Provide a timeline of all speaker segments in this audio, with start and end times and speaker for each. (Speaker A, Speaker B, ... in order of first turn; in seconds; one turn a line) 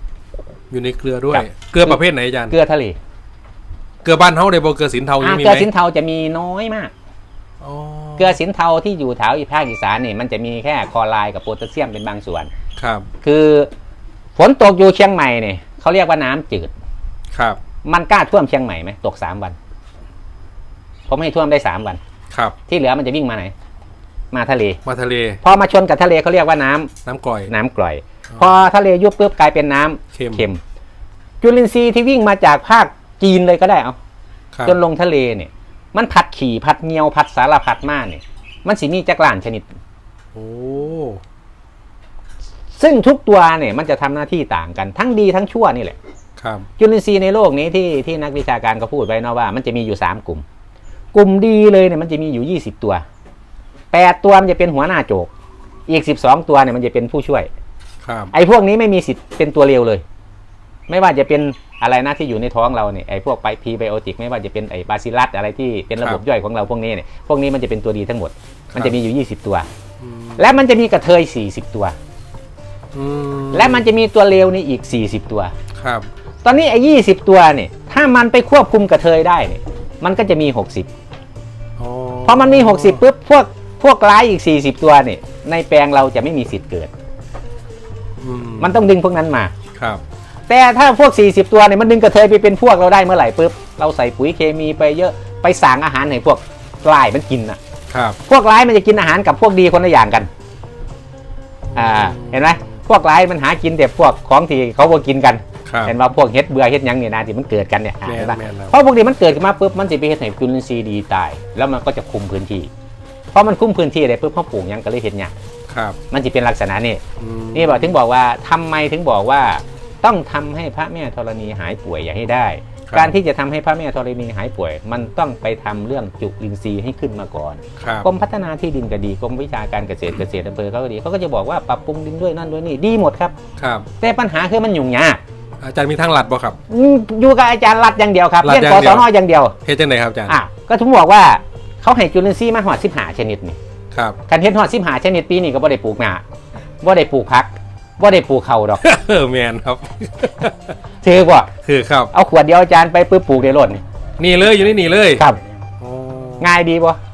Speaker A: 0.7-2.5
Speaker B: 1.3-3.0
Speaker A: 4.0-5.7
Speaker B: 5.2-6.9
Speaker A: 7.6-8.4
Speaker B: 8.2-12.5
Speaker A: 12.8-13.1
Speaker B: 13.2-13.7
Speaker B: 14.4-16.7
Speaker A: 17.3-17.6
Speaker B: 17.8-19.6
Speaker B: 21.1-22.0
Speaker A: 22.3-22.6
Speaker B: 22.7-23.5
Speaker B: 24.3-24.8
Speaker A: 24.9-25.4
Speaker B: 25.4-26.9
Speaker A: 27.0-27.5
Speaker B: 27.5-30.6
Speaker A: 30.1-30.4
Speaker B: 31.4-34.0
Speaker A: 34.5-34.8
Speaker B: 34.6-39.7
Speaker A: 40.3-41.2
Speaker B: 42.8-46.0
Speaker A: 46.4-46.7
Speaker B: 46.8-50.4
Speaker B: 51.1-53.0
Speaker B: 53.9-55.3
Speaker B: 55.9-57.5
Speaker A: 58.0-58.3
Speaker B: 58.3-60.0
Speaker B: 60.9-69.7
Speaker A: 70.0-70.5
Speaker B: 70.4-72.0
Speaker A: 72.9-73.9
Speaker B: 73.5-75.5
Speaker A: 75.8-76.1
Speaker B: 76.4-80.9
Speaker A: 81.8-83.0
Speaker B: 82.2-86.9
Speaker A: 88.2-88.8
Speaker B: 88.6-89.5
Speaker A: 89.8-90.0
Speaker B: 90.5-97.6
Speaker A: 97.9-98.2
Speaker B: 98.3-100.3
Speaker B: 101.7-112.7
Speaker A: 101.8-102.6
Speaker A: 105.7-106.0
Speaker A: 108.0-108.8
Speaker B: 113.3-115.3
Speaker A: 115.7-116.0
Speaker B: 116.1-117.0
Speaker A: 117.2-118.0
Speaker B: 117.5-133.3
Speaker A: 122.9-123.1
Speaker A: 127.8-128.1
Speaker A: 133.6-133.9
Speaker B: 134.0-135.2
Speaker A: 135.6-136.6
Speaker B: 136.7-139.6
Speaker A: 138.4-139.1
Speaker A: 139.6-140.4
Speaker B: 140.3-143.6
Speaker A: 143.9-144.2
Speaker B: 144.3-146.2
Speaker B: 146.8-148.8
Speaker A: 148.8-150.8
Speaker B: 151.0-151.5
Speaker A: 151.6-152.1
Speaker B: 152.1-153.8
Speaker A: 154.2-155.2
Speaker A: 155.8-156.5
Speaker B: 156.4-157.0